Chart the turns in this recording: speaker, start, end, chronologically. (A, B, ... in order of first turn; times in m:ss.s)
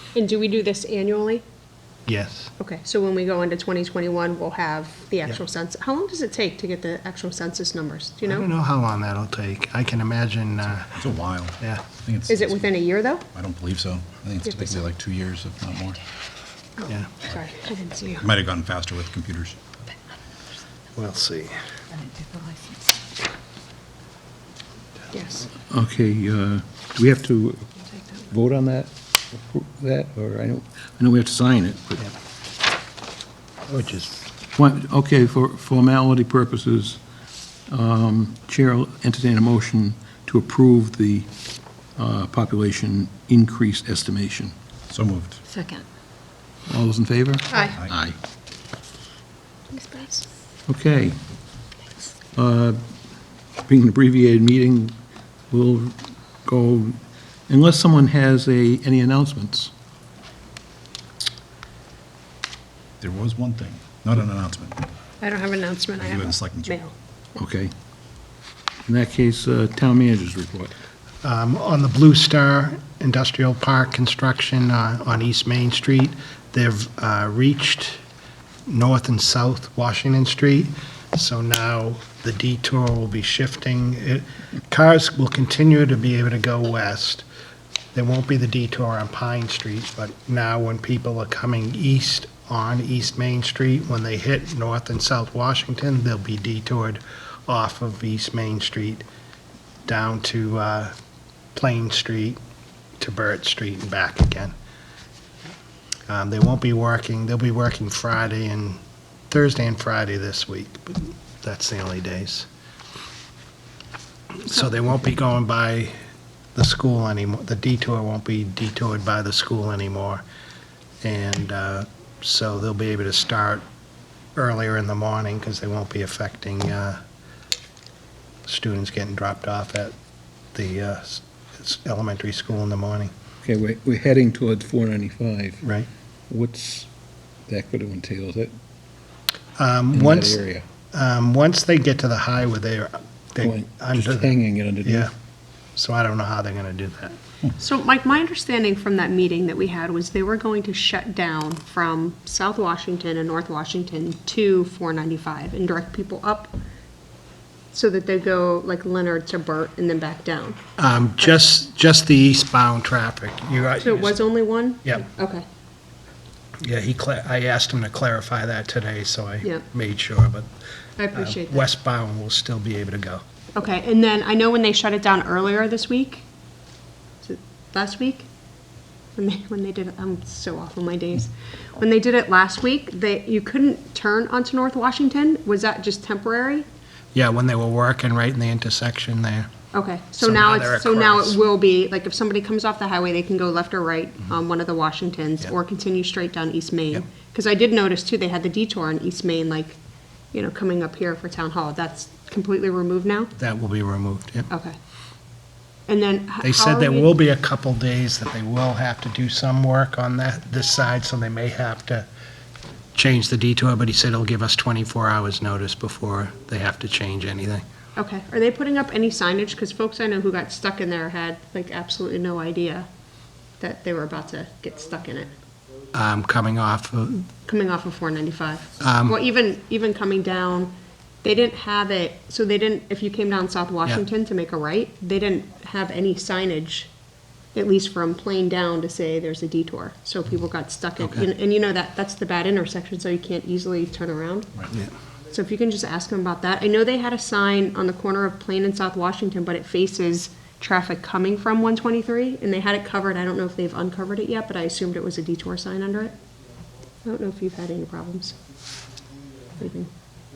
0:00.1-0:01.4 A
0:02.1-0:02.5 B
0:02.6-0:08.5 A
0:08.2-0:11.0 B
0:10.9-0:12.7 C
0:11.6-0:11.8 B
0:12.3-0:13.2 A
0:13.3-0:16.0 C
0:14.5-0:14.8 A
0:16.8-0:18.2 A
0:18.2-0:19.6 C
0:20.9-0:21.5 B
0:22.1-0:22.7 A
0:25.1-0:25.5 A
0:25.6-0:32.0 D
0:33.7-0:34.2 B
0:34.6-0:37.0 D
0:37.7-0:41.3 D
0:42.0-0:44.5 D
0:44.9-0:45.4 C
0:45.5-0:45.8 A
0:46.7-0:48.2 D
0:47.5-0:47.8 A
0:49.7-0:50.3 A
0:50.7-0:51.2 D
0:52.3-0:52.8 D
0:53.6-0:54.9 D
0:55.5-0:57.0 D
0:57.5-0:59.7 D
1:03.0-1:04.9 C
1:05.2-1:06.9 A
1:06.0-1:06.8 C
1:07.4-1:07.7 D
1:08.9-1:10.7 D
1:11.2-1:18.0 B
1:18.7-1:27.2 B
1:27.9-1:39.0 B
1:39.8-1:40.9 B
1:41.5-1:42.4 B
1:43.0-1:44.5 B
1:46.1-1:52.5 B
1:54.4-1:55.9 B
1:56.5-2:00.2 B
2:01.0-2:03.6 B
2:04.4-2:07.0 B
2:08.4-2:09.9 B
2:10.5-2:13.1 B
2:13.4-2:15.6 D
2:15.6-2:15.9 B
2:16.3-2:16.9 D
2:17.5-2:18.5 D
2:19.6-2:25.1 B
2:19.9-2:20.6 D
2:23.4-2:25.1 D
2:25.8-2:27.2 B
2:27.6-2:36.5 A
2:37.7-2:40.6 A
2:40.8-2:44.2 B
2:43.8-2:45.4 A
2:46.6-2:50.5 B
2:51.0-2:51.7 A
2:51.1-2:53.2 B
2:53.6-2:56.2 A
2:57.2-2:58.3 A
2:59.2-3:06.6 A
3:07.1-3:09.5 B
3:09.7-3:19.8 A
3:10.2-3:11.4 B
3:20.3-3:23.3 A
3:23.3-3:24.5 B
3:24.5-3:24.8 A
3:25.9-3:27.1 A
3:26.4-3:32.0 B
3:32.9-3:37.6 B
3:38.0-3:42.9 A
3:43.6-3:45.4 A
3:45.9-3:47.2 B
3:47.4-3:56.9 A
3:48.8-3:49.2 B
3:57.5-4:04.7 A
4:01.0-4:01.3 B
4:05.3-4:16.1 A
4:17.0-4:18.3 A
4:19.6-4:19.9 A